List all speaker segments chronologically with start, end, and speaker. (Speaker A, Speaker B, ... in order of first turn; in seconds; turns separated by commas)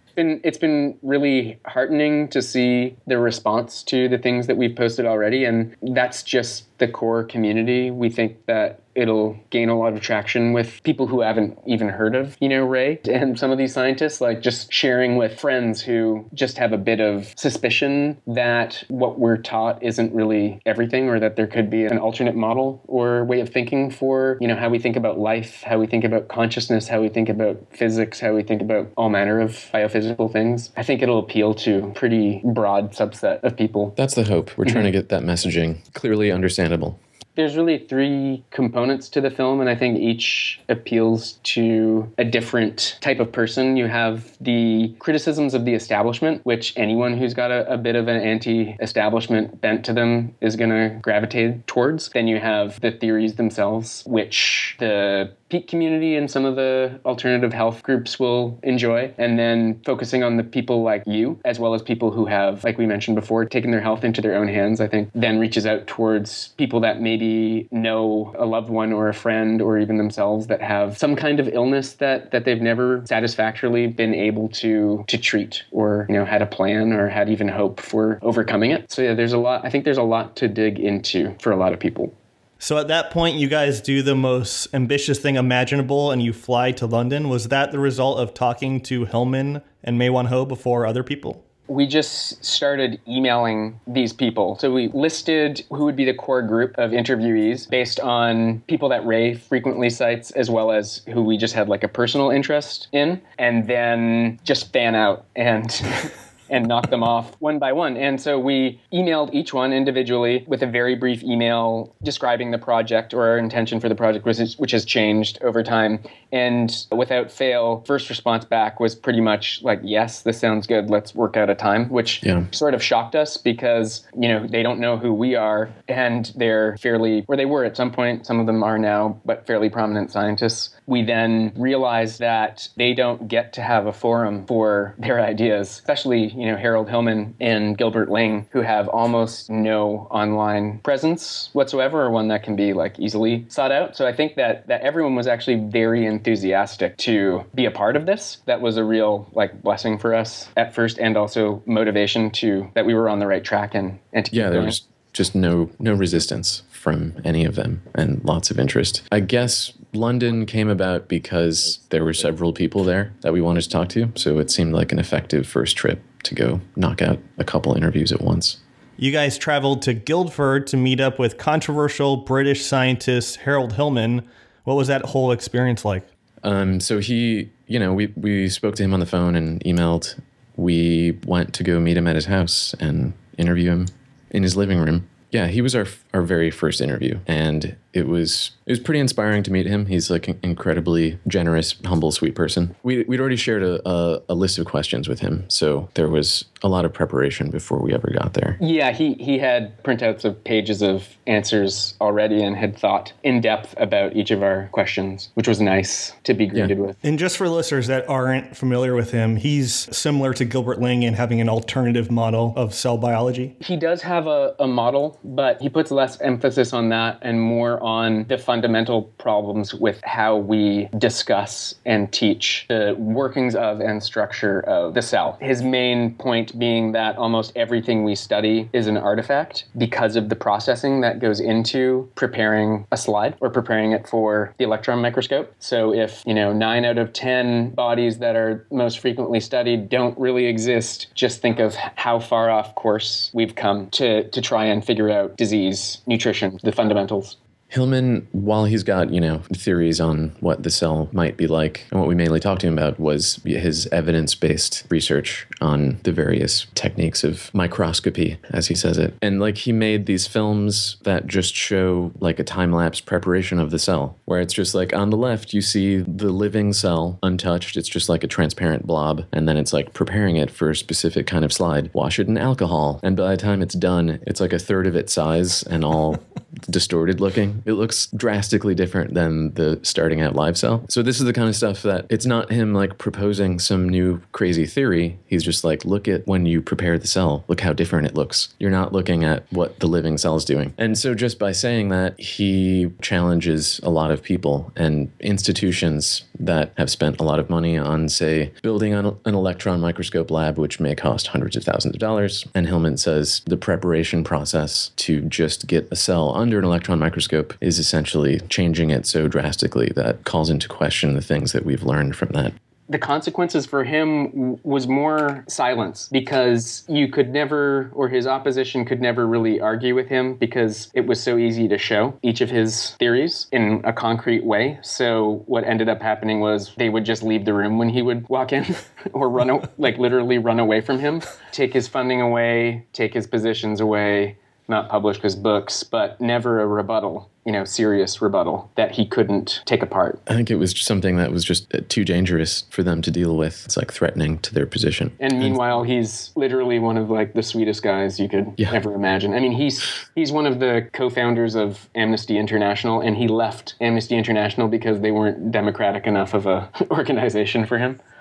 Speaker A: 0.2-34.0, Speaker B: 34.0-37.0, Speaker A: 37.4-82.1, Speaker C: 82.6-91.4, Speaker A: 91.7-154.8, Speaker B: 154.3-168.6, Speaker C: 169.0-176.1, Speaker B: 176.4-198.6, Speaker A: 198.6-207.0, Speaker C: 207.0-213.5, Speaker A: 213.6-247.4, Speaker B: 247.7-312.6, Speaker A: 312.9-340.2, Speaker B: 340.3-345.6, Speaker A: 345.2-358.0